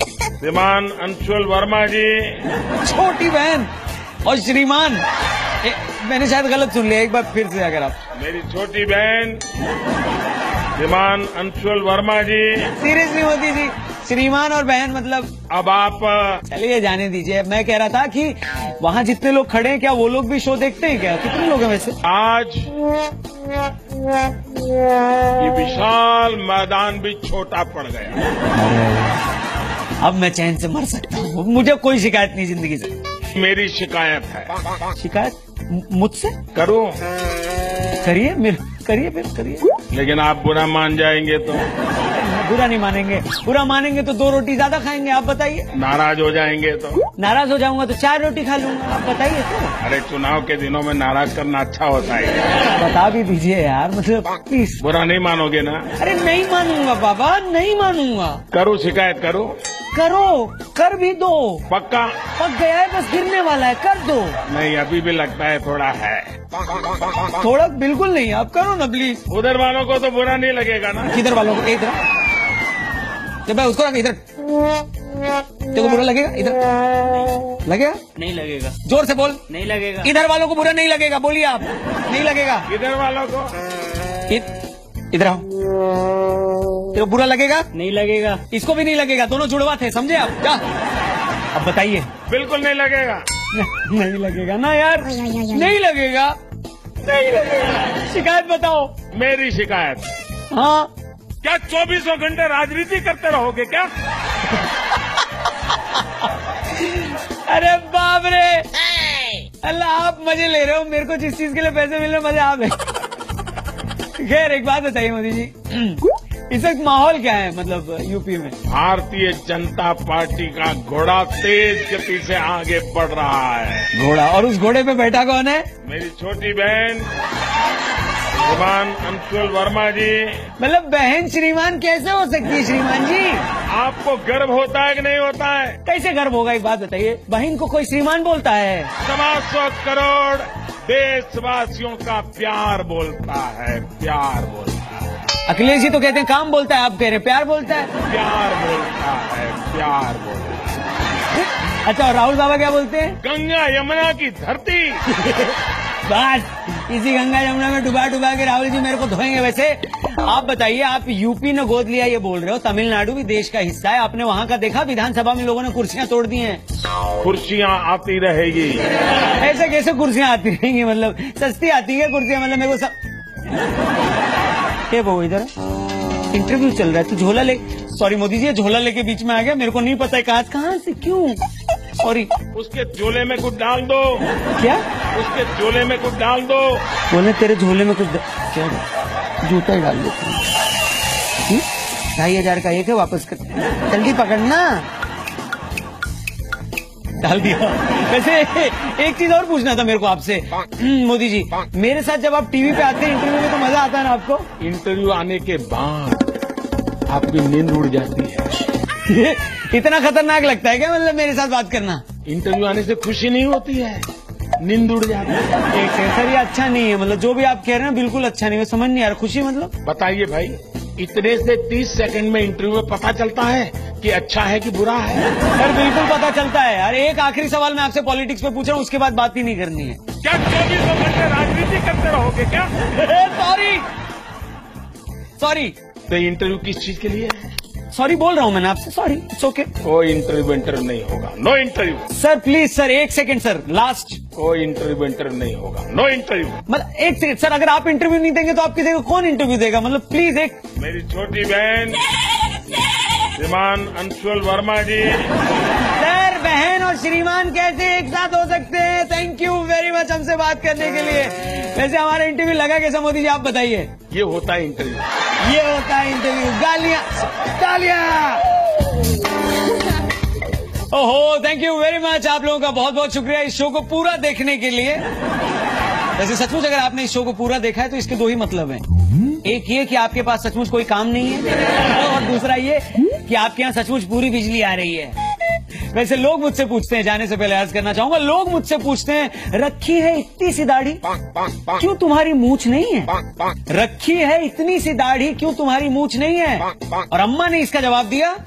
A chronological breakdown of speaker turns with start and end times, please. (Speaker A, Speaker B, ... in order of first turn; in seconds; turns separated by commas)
Speaker A: 0.4-2.5, Speaker B: 2.8-3.7, Speaker B: 4.2-5.0, Speaker B: 5.6-8.0, Speaker A: 8.1-9.4, Speaker A: 10.8-12.7, Speaker B: 12.8-15.3, Speaker A: 15.5-16.4, Speaker B: 16.5-22.0, Speaker A: 22.0-22.8, Speaker A: 25.4-28.2, Speaker B: 28.5-29.2, Speaker B: 30.0-33.0, Speaker A: 33.3-34.6, Speaker B: 35.0-36.4, Speaker A: 36.5-37.0, Speaker B: 38.0-39.8, Speaker A: 39.9-41.7, Speaker B: 42.0-45.7, Speaker A: 45.7-47.0, Speaker B: 47.2-49.8, Speaker A: 49.8-52.5, Speaker B: 52.7-54.8, Speaker A: 54.8-55.9, Speaker B: 56.0-58.4, Speaker A: 58.5-59.5, Speaker B: 59.9-61.6, Speaker A: 61.7-62.2, Speaker B: 62.4-64.4, Speaker A: 64.5-66.4, Speaker B: 67.3-69.2, Speaker A: 69.3-71.2, Speaker B: 71.1-72.0, Speaker B: 73.5-74.2, Speaker B: 75.7-76.7, Speaker C: 77.1-77.5, Speaker B: 77.6-78.0, Speaker C: 78.2-78.8, Speaker B: 78.8-79.5, Speaker C: 79.5-80.1, Speaker B: 80.0-82.7, Speaker A: 82.7-83.5, Speaker B: 85.1-85.5, Speaker B: 86.9-87.7, Speaker C: 87.7-88.4, Speaker B: 88.5-90.6, Speaker B: 91.5-92.1, Speaker A: 92.3-93.3, Speaker B: 93.5-96.3, Speaker B: 97.0-98.9, Speaker A: 99.1-100.1, Speaker B: 100.5-100.9, Speaker A: 101.4-103.9, Speaker B: 106.7-112.8, Speaker B: 114.2-118.6, Speaker A: 118.7-123.9, Speaker B: 123.9-125.7, Speaker A: 125.8-127.1, Speaker A: 128.4-130.5, Speaker B: 130.6-133.4, Speaker A: 133.7-135.8, Speaker B: 135.8-138.9, Speaker A: 139.0-145.0, Speaker B: 145.5-147.9, Speaker A: 148.0-151.0, Speaker B: 151.3-153.2, Speaker A: 153.2-155.2, Speaker B: 156.1-166.6, Speaker A: 167.2-168.9, Speaker B: 169.3-172.9, Speaker B: 174.9-175.5, Speaker B: 176.3-181.4, Speaker B: 182.0-182.3, Speaker A: 182.5-184.3, Speaker B: 184.6-184.8, Speaker A: 185.1-186.8, Speaker B: 187.1-188.8, Speaker B: 189.4-190.5, Speaker B: 191.5-194.9, Speaker B: 197.2-204.5, Speaker A: 204.6-206.3, Speaker A: 207.1-208.5, Speaker B: 209.1-212.0, Speaker A: 212.2-214.1, Speaker A: 214.6-215.6, Speaker B: 215.7-219.7, Speaker A: 219.8-225.3, Speaker B: 225.6-230.0, Speaker A: 230.2-232.7, Speaker B: 232.9-233.9, Speaker B: 235.4-235.8, Speaker A: 236.1-237.5, Speaker B: 237.9-239.7, Speaker A: 239.8-242.1, Speaker B: 242.1-244.2, Speaker A: 244.3-246.6, Speaker B: 246.7-250.6, Speaker A: 250.8-252.1, Speaker A: 253.3-255.3, Speaker B: 255.9-263.9, Speaker A: 264.1-265.1, Speaker B: 265.4-268.5, Speaker B: 270.9-275.0, Speaker B: 276.2-278.8, Speaker B: 279.4-285.2, Speaker B: 285.9-291.1, Speaker B: 291.6-298.4